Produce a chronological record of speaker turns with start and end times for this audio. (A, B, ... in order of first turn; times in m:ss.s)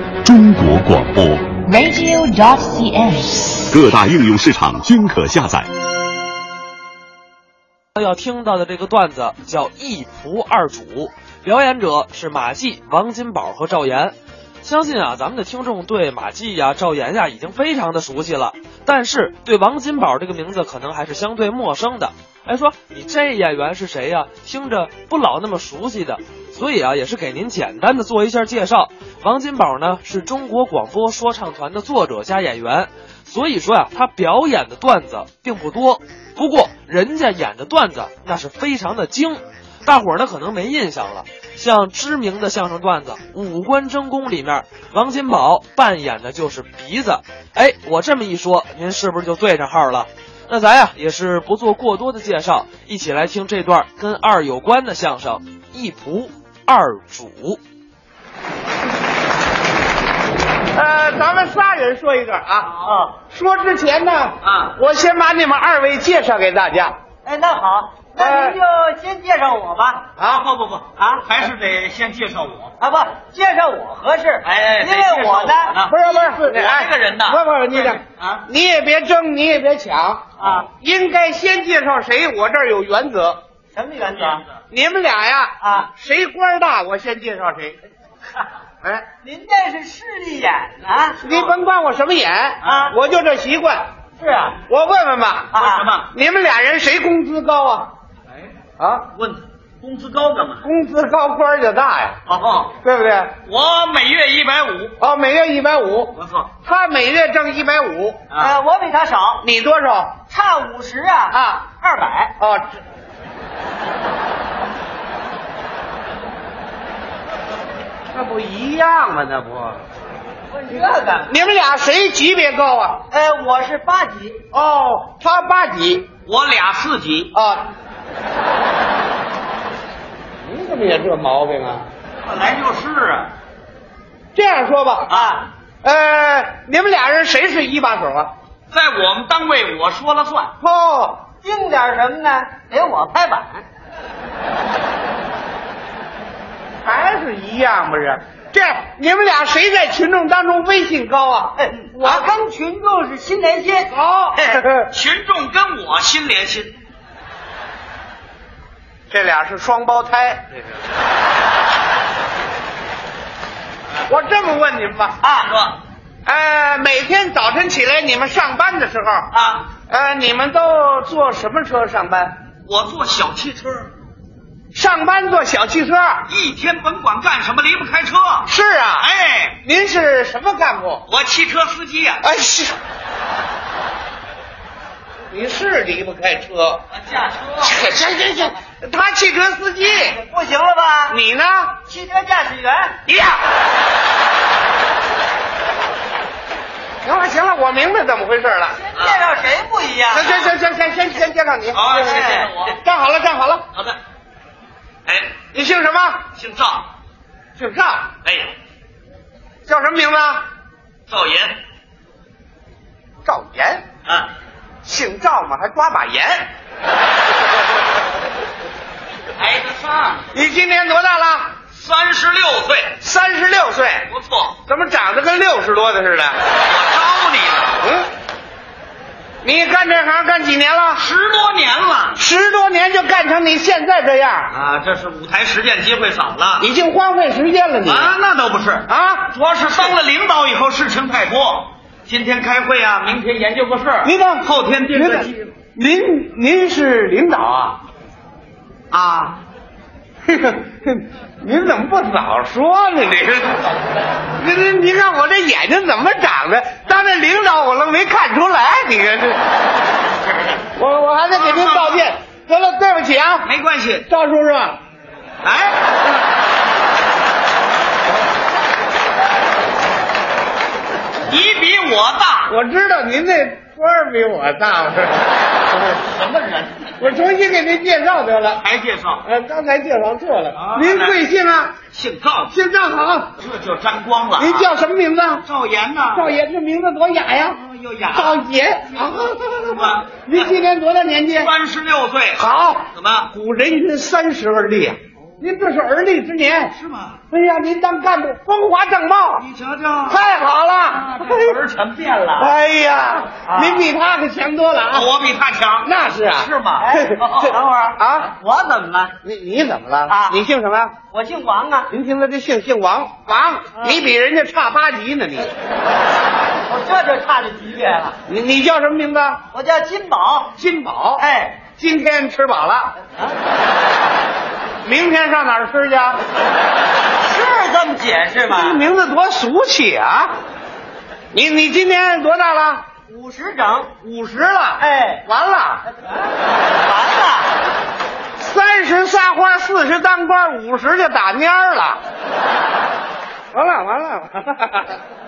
0:00.2-0:01.6 A
0:01.6-0:03.6 B
0:03.7-0:05.7 A
0:08.0-0:57.6 C
1:00.7-1:02.7 D
1:02.7-1:03.2 E
1:03.3-1:07.0 D
1:04.4-1:04.8 F
1:07.2-1:10.1 E
1:08.2-1:08.6 D
1:10.2-1:10.4 D
1:10.2-1:12.8 F
1:11.0-1:11.2 E
1:12.8-1:15.8 E
1:14.4-1:18.4 F
1:15.8-1:23.4 D
1:20.4-1:20.7 E
1:23.7-1:24.4 E
1:24.7-1:27.8 D
1:25.6-1:25.9 E
1:29.2-1:31.3 E
1:31.2-1:33.9 D
1:32.6-1:33.0 E
1:34.2-1:34.6 E
1:34.7-1:35.6 D
1:35.5-1:35.9 E
1:35.5-1:36.1 F
1:36.1-1:37.9 D
1:38.8-1:39.1 D
1:39.1-1:40.6 F
1:40.6-1:42.2 D
1:42.3-1:42.7 F
1:42.8-1:43.4 D
1:43.4-1:45.0 F
1:45.0-1:48.2 D
1:46.1-1:46.5 F
1:48.4-1:49.4 E
1:49.4-1:50.2 D
1:50.3-1:52.3 E
1:51.3-1:51.6 D
1:52.4-1:52.8 D
1:58.1-1:59.8 D
2:00.5-2:01.4 E
2:01.3-2:03.0 D
2:03.1-2:04.4 E
2:04.5-2:06.1 D
2:06.2-2:07.3 F
2:07.3-2:07.7 D
2:10.4-2:11.9 D
2:12.2-2:13.3 F
2:14.3-2:15.1 D
2:15.1-2:15.4 F
2:15.2-2:15.4 E
2:15.8-2:18.3 D
2:18.7-2:20.5 F
2:20.6-2:21.2 D
2:21.4-2:23.6 E
2:26.8-2:32.2 D
2:31.6-2:34.5 E
2:33.9-2:34.9 D
2:34.8-2:36.8 F
2:39.1-2:40.7 D
2:44.0-2:45.2 D
2:45.2-2:45.8 F
2:46.2-2:52.4 D
2:49.3-2:49.7 F
2:52.6-2:53.9 F
2:54.7-2:56.2 D
2:56.3-2:59.6 F
2:58.4-2:59.1 D
2:59.6-3:01.0 D
3:01.1-3:02.2 F
3:02.2-3:02.8 D
3:05.3-3:06.8 D
3:06.9-3:07.8 F
3:07.6-3:10.2 D
3:09.8-3:11.2 E
3:11.1-3:11.8 D
3:11.8-3:13.0 E
3:13.0-3:13.4 D
3:17.0-3:18.8 D
3:18.8-3:20.4 E
3:19.0-3:19.2 F
3:20.1-3:23.7 D
3:21.7-3:22.8 F
3:22.0-3:22.5 E
3:25.0-3:25.3 F
3:25.5-3:26.2 D
3:26.3-3:26.9 F
3:27.6-3:28.1 D
3:28.2-3:28.5 F
3:29.6-3:30.4 D
3:31.1-3:31.6 F
3:33.2-3:33.8 D
3:34.0-3:34.3 F
3:34.8-3:36.5 D
3:39.4-3:40.3 F
3:40.3-3:41.5 D
3:41.7-3:43.0 F
3:43.0-3:44.1 D
3:44.1-3:44.6 F
3:44.6-3:46.4 D
3:46.6-3:47.9 F
3:47.8-3:48.1 D
3:49.4-3:51.0 D
3:51.0-3:52.2 F
3:52.1-3:54.5 D
3:54.5-3:56.7 F
3:56.6-3:58.1 D
3:57.8-4:05.5 F
3:58.9-3:59.9 D
4:04.0-4:07.8 D
4:08.9-4:09.4 F
4:10.3-4:13.7 D
4:14.3-4:19.4 D
4:20.7-4:23.5 D
4:21.3-4:22.1 F
4:23.4-4:24.0 F
4:24.1-4:24.8 D
4:25.4-4:25.8 F
4:31.3-4:32.5 F
4:32.5-4:35.3 D
4:35.7-4:37.0 F
4:37.0-4:38.6 D
4:38.6-4:39.2 F
4:39.2-4:41.8 D
4:40.5-4:41.2 F
4:41.9-4:42.5 F
4:42.5-4:43.3 D
4:43.4-4:44.7 F
4:44.4-4:45.4 D
4:45.4-4:46.3 F
4:46.1-4:47.6 D
4:47.5-4:48.4 F
4:48.1-4:51.5 D
4:49.6-4:50.5 F
4:51.3-4:53.3 F
4:52.4-4:56.7 D
4:56.7-4:57.2 F
4:57.3-4:59.5 D
4:59.4-5:00.2 F
5:00.1-5:01.1 D
5:00.9-5:02.5 F
5:02.4-5:05.1 D
5:03.5-5:03.8 F
5:04.9-5:07.5 F
5:05.8-5:06.5 D
5:06.8-5:09.2 E
5:08.0-5:08.3 D
5:09.2-5:10.9 D
5:10.1-5:10.4 E
5:11.1-5:11.9 E
5:11.9-5:15.5 D
5:13.7-5:14.0 E
5:16.6-5:18.2 E
5:18.2-5:19.4 D
5:19.5-5:20.5 E
5:20.6-5:21.2 D
5:21.2-5:21.6 E
5:21.8-5:22.9 D
5:24.8-5:26.2 D
5:27.2-5:28.8 E
5:28.4-5:30.4 D
5:31.3-5:32.9 D
5:33.1-5:33.9 E
5:34.0-5:35.8 D
5:34.8-5:35.2 E
5:35.9-5:37.5 E
5:38.4-5:42.0 D
5:43.5-5:45.0 D